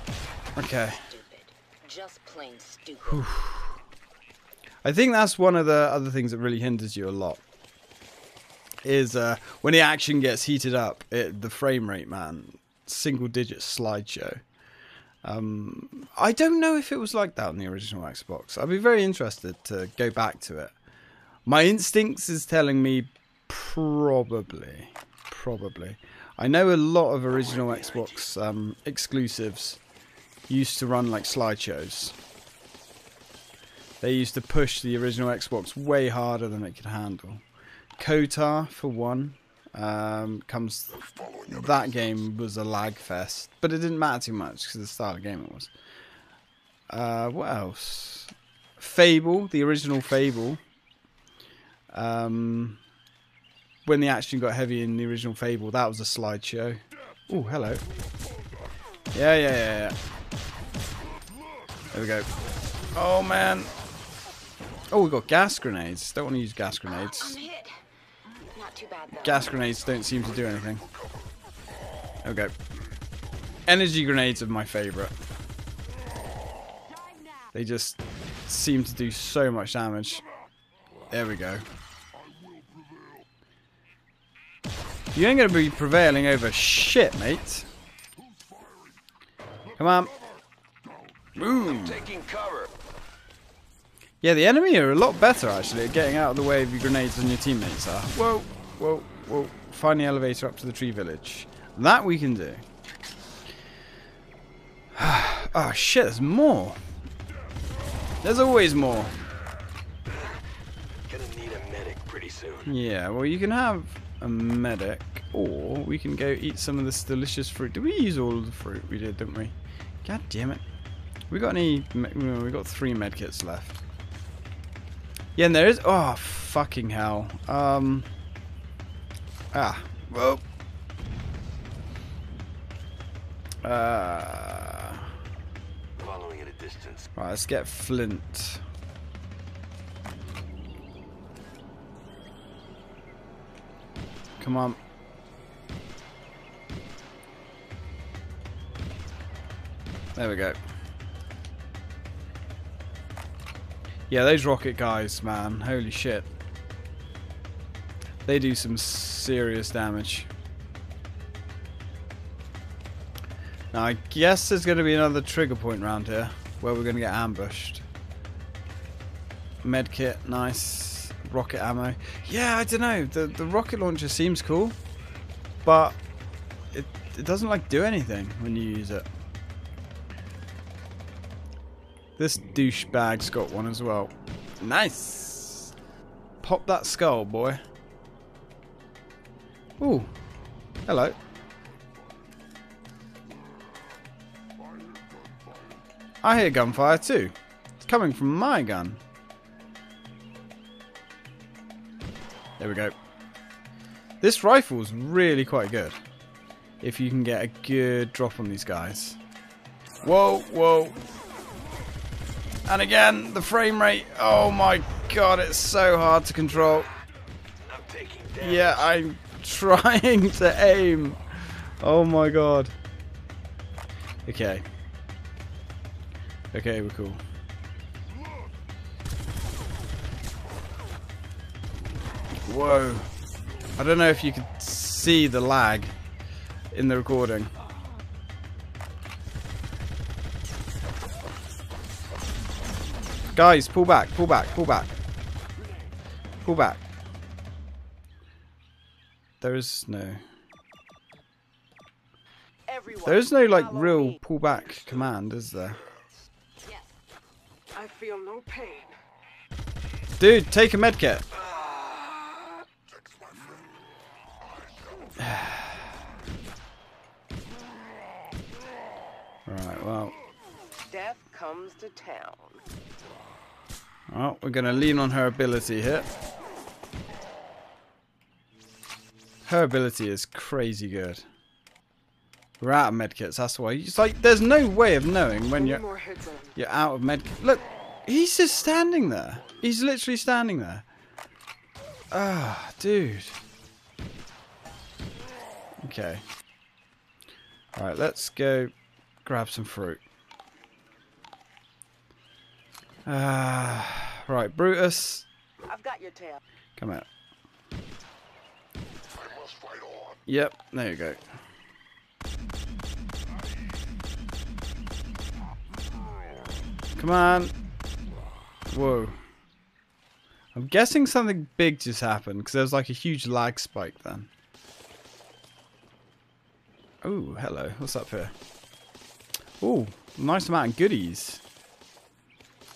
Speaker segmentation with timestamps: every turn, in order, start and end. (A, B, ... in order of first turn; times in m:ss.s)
0:00.6-0:01.0 A
0:00.6-0:03.2 B
0:03.0-0:03.7 A
0:04.8-0:07.4 A
0:08.8-0:14.4 A
0:15.2-0:20.7 A
0:21.4-0:29.8 A
0:27.3-0:28.3 C
0:30.5-0:32.1 A
0:34.0-0:37.4 A
0:38.0-0:41.0 A
0:41.0-0:42.2 D
0:41.5-0:45.7 A
0:46.9-0:50.6 A
0:51.9-0:52.8 A
0:53.8-0:57.8 A
0:59.1-0:59.9 A
1:01.9-1:02.3 A
1:02.9-1:03.7 A
1:04.9-1:07.4 A
1:07.0-1:07.8 B
1:08.4-1:09.6 B
1:09.2-1:10.8 A
1:10.3-1:11.2 D
1:12.2-1:12.5 A
1:13.7-1:15.1 A
1:16.8-1:17.4 B
1:17.5-1:20.2 A
1:21.1-1:21.6 A
1:25.1-1:27.7 A
1:29.8-1:30.1 A
1:31.4-1:32.0 A
1:31.4-1:32.7 C
1:34.2-1:42.6 A
1:44.9-1:46.8 A
1:48.2-1:49.1 A
1:51.1-1:52.7 C
1:52.7-2:00.6 A
2:01.3-2:03.8 A
2:05.4-2:08.1 A
2:09.5-2:10.4 A
2:13.6-2:15.0 A
2:16.0-2:17.0 C
2:17.2-2:18.6 A
2:24.4-2:24.8 A
2:30.2-2:30.6 A
2:34.1-2:36.3 A
2:38.2-2:40.3 A
2:43.7-2:47.8 A
2:49.6-2:54.8 A
2:55.6-2:56.0 A
2:56.7-2:59.1 A
3:02.2-3:05.7 A
3:06.4-3:07.6 A
3:09.8-3:10.1 A
3:10.9-3:11.2 A
3:16.2-3:19.0 A
3:22.6-3:22.9 A
3:24.2-3:26.0 A
3:26.8-3:29.2 A
3:30.0-3:31.0 A
3:32.6-3:36.9 A
3:37.6-3:38.9 C
3:38.4-3:42.7 A
3:44.2-3:44.6 A
3:46.5-3:47.2 A
3:52.4-3:53.1 A
3:53.8-3:55.9 A
3:56.7-3:57.5 A
4:03.3-4:05.0 A
4:06.4-4:06.8 A
4:09.4-4:10.2 A
4:12.7-4:15.0 E
4:13.0-4:15.8 A
4:16.6-4:16.9 B
4:17.7-4:18.9 E
4:20.2-4:21.2 A
4:22.9-4:23.7 D
4:24.4-4:25.3 D
4:25.2-4:25.8 A
4:29.4-4:30.1 A
4:30.9-4:32.6 E
4:34.1-4:36.1 A
4:39.4-4:41.2 A
4:42.6-4:45.8 A
4:45.5-4:46.6 E
4:46.6-4:50.8 A
4:52.1-4:53.4 A
4:55.8-4:56.2 A
4:57.7-5:00.0 A
5:03.0-5:05.2 A
5:05.7-5:06.4 E
5:06.8-5:07.1 A
5:09.1-5:10.2 D
5:10.3-5:11.2 A
5:17.0-5:17.5 A
5:18.7-5:19.2 A
5:20.5-5:24.3 A
5:27.0-5:28.3 A
5:29.6-5:31.4 A